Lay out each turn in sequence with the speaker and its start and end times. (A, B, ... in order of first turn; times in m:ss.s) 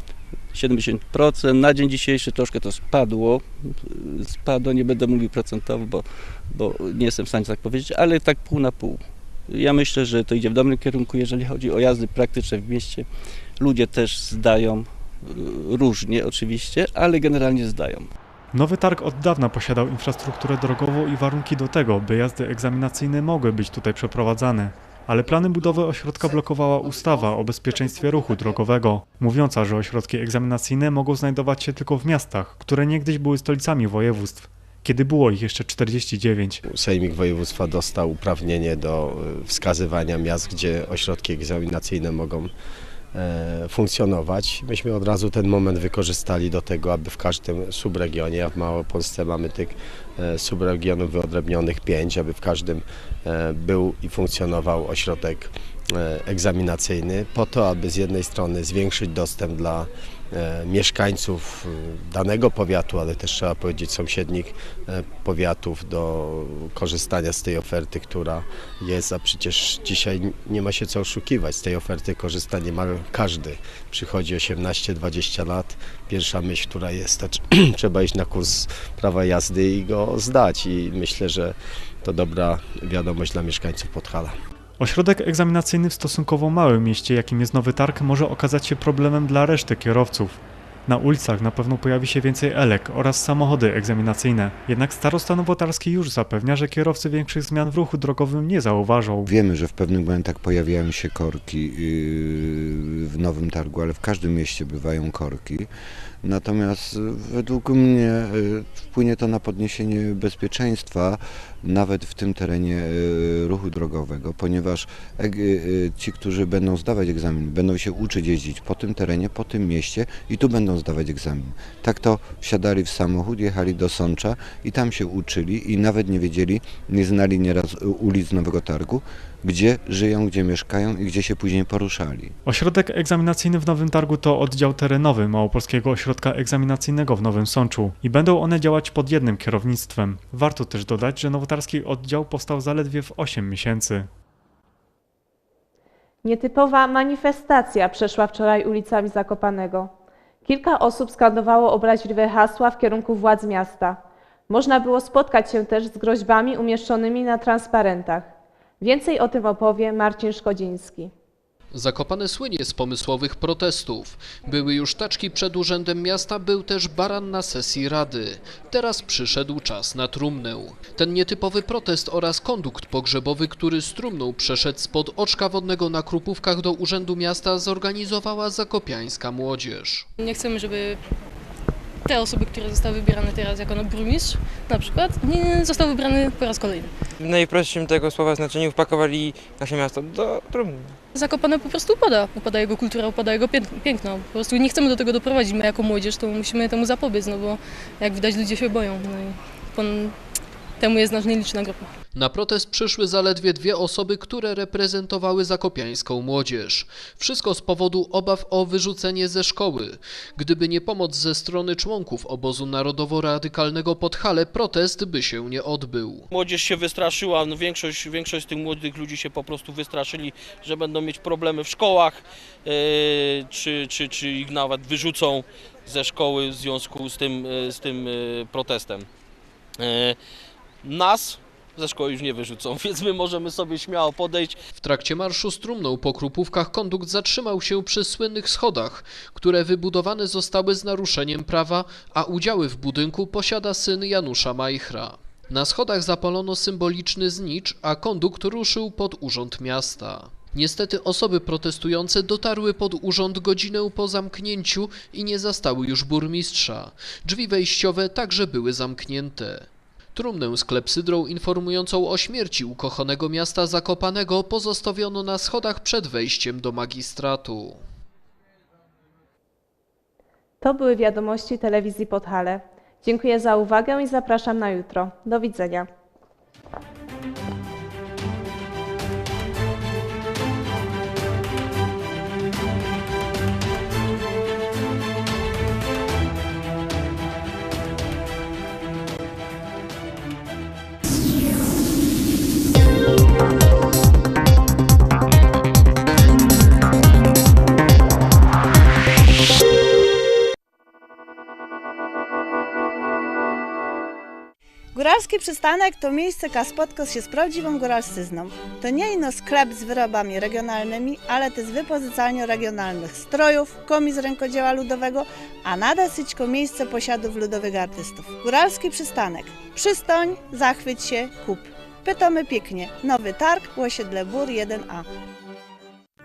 0:00.5-0:13.1 A
0:13.6-0:18.1 A
0:18.5-0:36.6 B
0:36.7-0:42.5 C
0:43.1-1:24.3 C
1:24.8-1:39.3 B
1:39.3-1:45.7 D
1:46.2-2:12.3 D
2:12.5-2:24.1 B
2:26.2-2:29.9 E
2:30.4-2:38.3 E
2:38.8-2:41.1 E
2:41.7-3:00.1 F
3:00.2-3:01.0 G
3:02.0-3:06.9 G
3:07.2-3:11.0 H
3:11.2-3:20.2 G
3:20.8-3:21.9 G
3:22.1-3:36.3 F
3:36.3-3:49.1 I
3:49.8-3:50.2 I
3:50.8-3:54.6 I
3:54.8-4:27.8 F
4:30.6-4:35.9 E
5:05.0-5:25.1 J